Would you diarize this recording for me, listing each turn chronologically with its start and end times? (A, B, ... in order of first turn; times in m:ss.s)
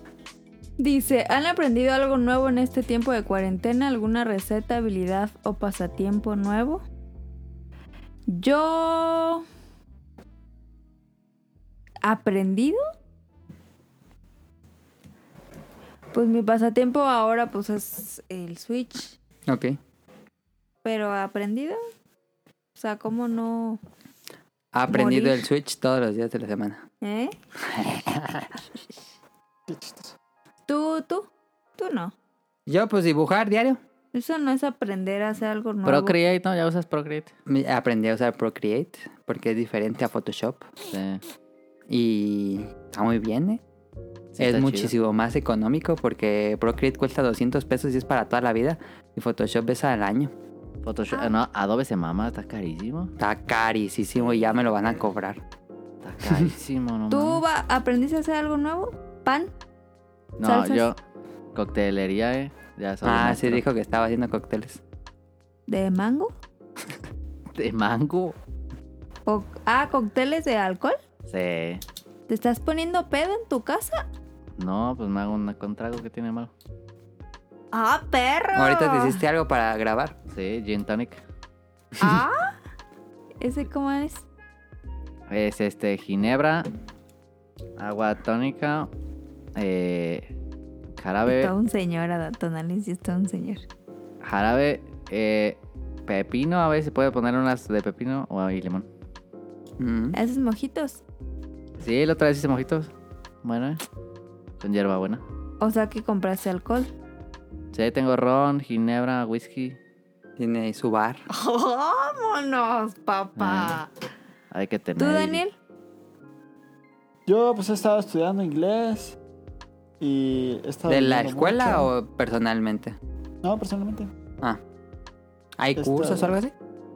0:00.8-0:06.8 A
0:08.3-0:09.4 A
0:12.0-0:12.8 A
0:16.1-0:19.1 A
0:19.5-0:19.8 B
0:20.8-0:21.8 A
0:22.7-0:23.8 A
0:24.7-0:26.8 B
0:24.9-0:25.4 A
0:27.0-0:27.4 A
0:27.7-0:28.5 B
0:29.7-0:30.2 C
0:30.7-0:32.1 A
0:32.7-0:33.8 B
0:34.1-0:36.2 A
0:35.8-0:37.3 D
0:37.5-0:40.7 B
0:40.9-0:41.2 D
0:41.9-0:43.6 B
0:44.3-0:44.9 D
0:44.4-0:50.3 B
0:50.8-0:53.1 D
0:53.2-0:55.4 B
0:54.2-0:54.6 D
0:56.0-0:57.4 D
0:57.1-0:59.5 A
1:00.4-1:01.0 D
1:00.4-1:00.9 A
1:01.5-1:03.6 D
1:03.0-1:04.8 B
1:05.7-1:06.3 A
1:07.6-1:08.4 D
1:09.2-1:11.0 A
1:11.3-1:11.8 D
1:12.3-1:14.0 A
1:14.6-1:16.5 D
1:17.7-1:19.2 A
1:18.6-1:20.1 B
1:20.3-1:21.2 D
1:22.0-1:22.6 A
1:23.4-1:24.2 A
1:25.3-1:26.7 D
1:27.8-1:28.9 D
1:29.6-1:30.3 D
1:31.0-1:31.5 D
1:31.2-1:33.6 A
1:34.2-1:38.9 D
1:39.8-1:40.2 B
1:40.1-1:41.0 A
1:41.8-1:42.9 D
1:43.4-1:43.8 D
1:44.6-1:45.2 D
1:45.6-1:46.9 A
1:47.7-1:49.8 D
1:50.4-1:51.2 B
1:51.3-1:53.9 A
1:53.4-1:53.8 D
1:54.5-1:55.4 D
1:55.0-1:55.5 A
1:57.2-1:59.2 C
2:00.0-2:01.9 C
2:00.9-2:03.0 B
2:03.4-2:04.1 C
2:05.6-2:06.5 B
2:05.8-2:06.4 C